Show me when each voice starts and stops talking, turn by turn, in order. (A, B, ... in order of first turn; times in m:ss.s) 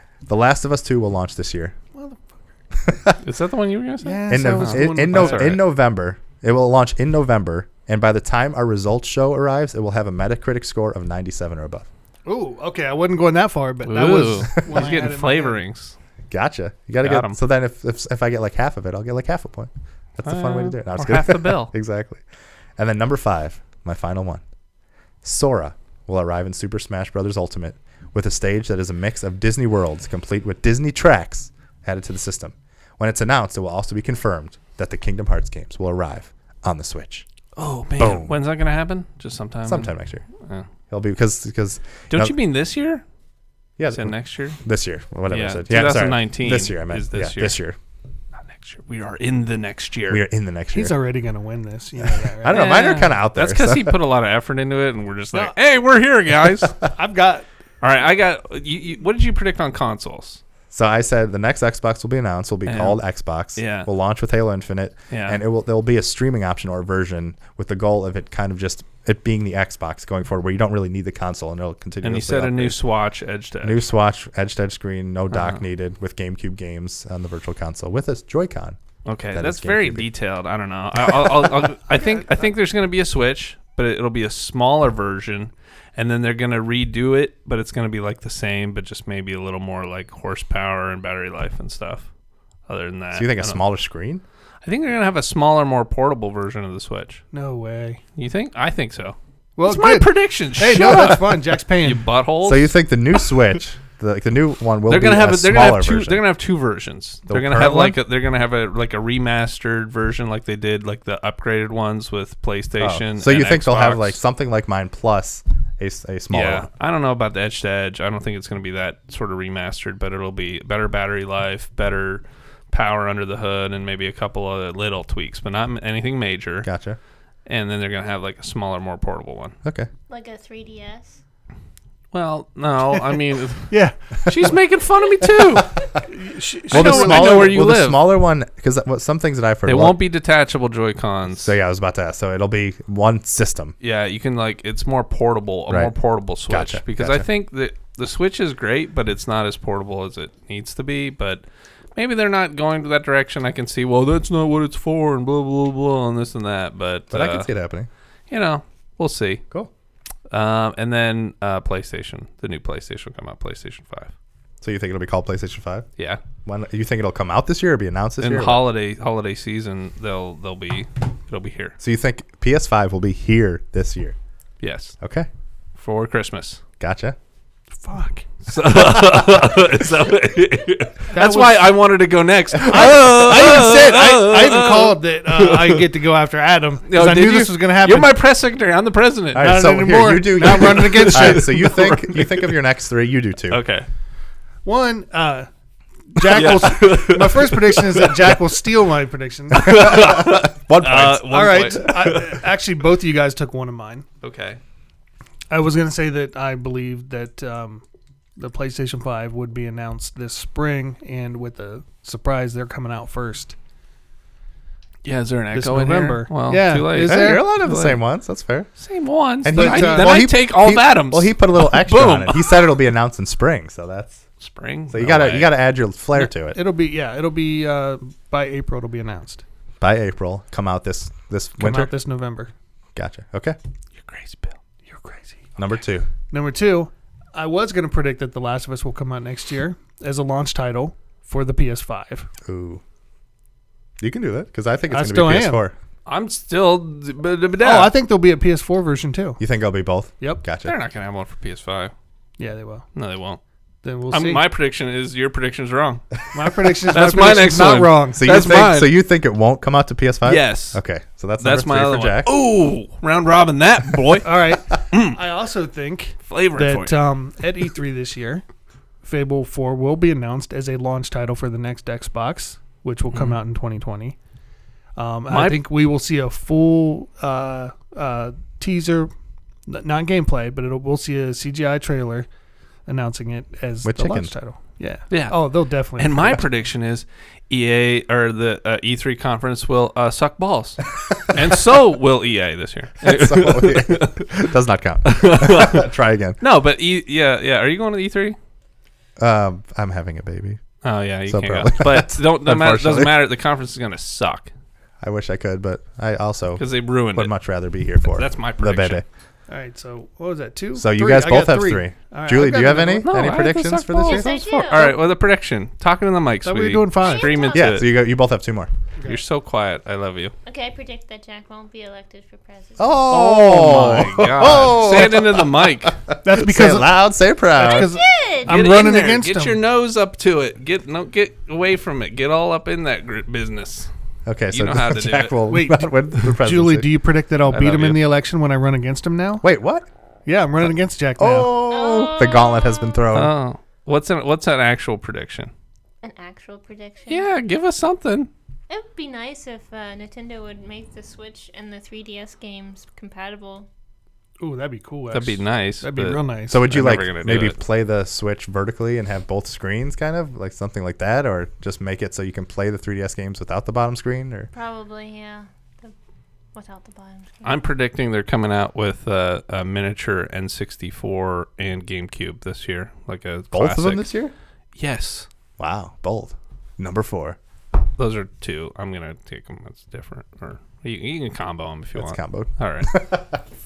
0:00.3-0:01.8 A
0:02.0-0:02.2 B
0:02.8-0:03.2 A
0:03.2-0:05.6 C
0:04.0-0:05.6 B
0:04.3-0:11.9 A
0:12.2-0:15.6 B
0:13.8-0:16.0 C
0:16.3-0:22.2 A
0:17.0-0:17.4 C
0:20.2-0:21.7 C
0:22.8-0:24.4 A
0:25.2-0:37.2 A
0:37.6-0:40.7 C
0:38.0-0:38.4 A
0:39.7-0:40.2 A
0:40.9-0:42.3 A
0:42.1-0:43.0 C
0:43.8-0:47.8 A
0:43.9-0:44.6 C
0:45.3-0:47.6 C
0:48.5-0:50.2 C
0:50.1-0:50.9 A
0:50.7-0:52.8 B
0:52.3-0:54.0 A
0:52.5-0:56.8 C
0:56.9-0:57.5 B
0:57.8-1:00.4 C
1:00.7-1:12.8 A
1:02.7-1:03.0 C
1:03.6-1:03.9 C
1:05.1-1:05.4 C
1:12.0-1:13.8 C
1:13.6-1:18.8 A
1:15.3-1:15.6 C
1:19.1-1:32.1 C
1:19.3-1:20.1 A
1:21.9-1:22.5 B
1:32.7-1:33.6 C
1:33.1-1:34.2 A
1:34.6-1:37.2 C
1:37.3-1:38.0 B
1:38.2-1:42.7 C
1:39.6-1:42.0 B
1:42.4-1:46.2 A
1:44.9-1:54.2 C
1:47.3-1:48.0 A
1:52.8-1:56.7 A
1:56.3-2:06.7 C
2:06.6-2:07.0 A
2:07.5-2:09.6 C
2:09.6-2:09.9 A
2:10.1-2:11.2 D
2:12.1-2:15.8 C
2:13.7-2:14.0 B
2:16.1-2:17.6 B
2:16.7-2:18.1 C
2:16.7-2:20.0 A
2:19.7-2:21.6 C
2:21.4-2:23.8 A
2:23.8-2:31.4 C
2:25.7-2:27.3 A
2:32.0-2:37.5 C
2:37.1-2:37.9 A
2:38.3-2:39.4 C
2:40.3-2:44.1 C
2:44.6-2:45.9 A
2:46.0-2:46.2 C
2:46.4-2:48.6 A
2:48.2-2:51.8 C
2:51.8-2:54.2 A
2:54.6-2:55.0 C
2:55.0-2:55.3 A
2:55.8-2:56.6 C
2:56.8-2:57.2 A
2:57.8-2:58.3 B
2:58.5-3:05.9 C
3:01.1-3:01.7 B
3:02.6-3:03.4 A
3:02.7-3:08.2 B
3:06.9-3:09.6 C
3:09.3-3:13.6 A
3:09.4-3:11.9 B
3:10.4-3:12.5 C
3:13.5-3:13.9 C
3:14.6-3:15.5 B
3:16.1-3:20.0 B
3:16.3-3:18.4 C
3:19.5-3:22.2 C
3:19.7-3:21.8 A
3:21.1-3:24.1 B
3:24.2-3:24.6 C
3:25.5-3:27.8 B
3:28.4-3:33.6 B
3:35.0-3:38.0 C
3:35.5-3:37.5 B
3:37.0-3:38.7 A
3:38.8-3:42.6 C
3:39.4-3:44.2 A
3:39.5-3:40.3 B
3:44.4-3:45.6 C
3:44.9-3:46.6 A
3:46.2-3:49.4 B
3:49.8-3:51.9 A
3:51.6-3:52.5 B
3:53.0-3:53.6 A
3:54.0-3:54.6 C
3:54.9-3:55.5 B
3:55.6-3:56.1 A
3:56.3-4:02.3 B
4:02.4-4:02.8 A
4:04.0-4:05.8 A
4:04.9-4:05.6 B
4:06.1-4:07.9 C
4:07.6-4:09.4 B
4:09.4-4:10.8 A
4:10.6-4:11.9 C
4:12.4-4:12.9 B
4:13.0-4:13.4 C
4:13.8-4:14.4 B
4:14.1-4:16.0 C
4:16.3-4:18.7 B
4:16.9-4:18.9 C
4:18.2-4:22.3 A
4:20.2-4:20.8 C
4:21.4-4:25.2 C
4:24.2-4:28.4 B
4:26.3-4:27.0 C
4:29.0-4:34.2 B
4:33.1-4:33.4 C
4:35.0-4:39.1 B
4:35.3-4:35.6 C
4:39.7-4:42.3 B
4:42.9-4:46.4 B
4:43.8-4:44.3 A
4:45.1-4:54.3 C
4:53.0-4:56.4 A
4:55.0-4:55.9 C
4:56.4-4:58.4 C
4:59.2-5:00.6 A
5:00.8-5:04.5 C
5:01.3-5:03.3 A
5:05.0-5:09.0 A
5:06.6-5:07.3 C
5:08.1-5:09.0 C
5:09.5-5:13.1 B
5:10.8-5:14.9 A
5:13.0-5:17.9 C
5:14.0-5:15.0 D
5:16.4-5:17.5 B
5:17.0-5:17.8 D
5:17.5-5:18.7 A
5:19.0-5:20.3 C
5:20.5-5:23.0 D
5:22.8-5:27.9 A
5:23.1-5:26.0 C
5:26.2-5:29.6 B
5:27.6-5:28.6 D
5:28.4-5:33.9 C
5:34.3-5:36.9 A
5:34.5-5:35.4 C
5:35.5-5:39.4 B
5:37.5-5:38.0 C
5:39.4-5:39.9 A
5:40.3-5:41.5 B
5:41.2-5:43.3 A
5:41.7-5:43.0 D
5:43.1-5:45.5 C
5:46.0-5:47.3 D
5:47.1-5:48.3 C
5:48.7-5:53.7 D
5:54.4-5:56.6 B
5:55.1-5:57.6 C
5:56.5-6:04.5 A
6:04.5-6:05.9 D
6:06.5-6:07.6 D
6:07.4-6:14.1 C
6:13.5-6:14.3 A
6:14.8-6:15.3 C
6:15.6-6:17.4 A
6:18.0-6:22.9 C
6:22.0-6:23.4 A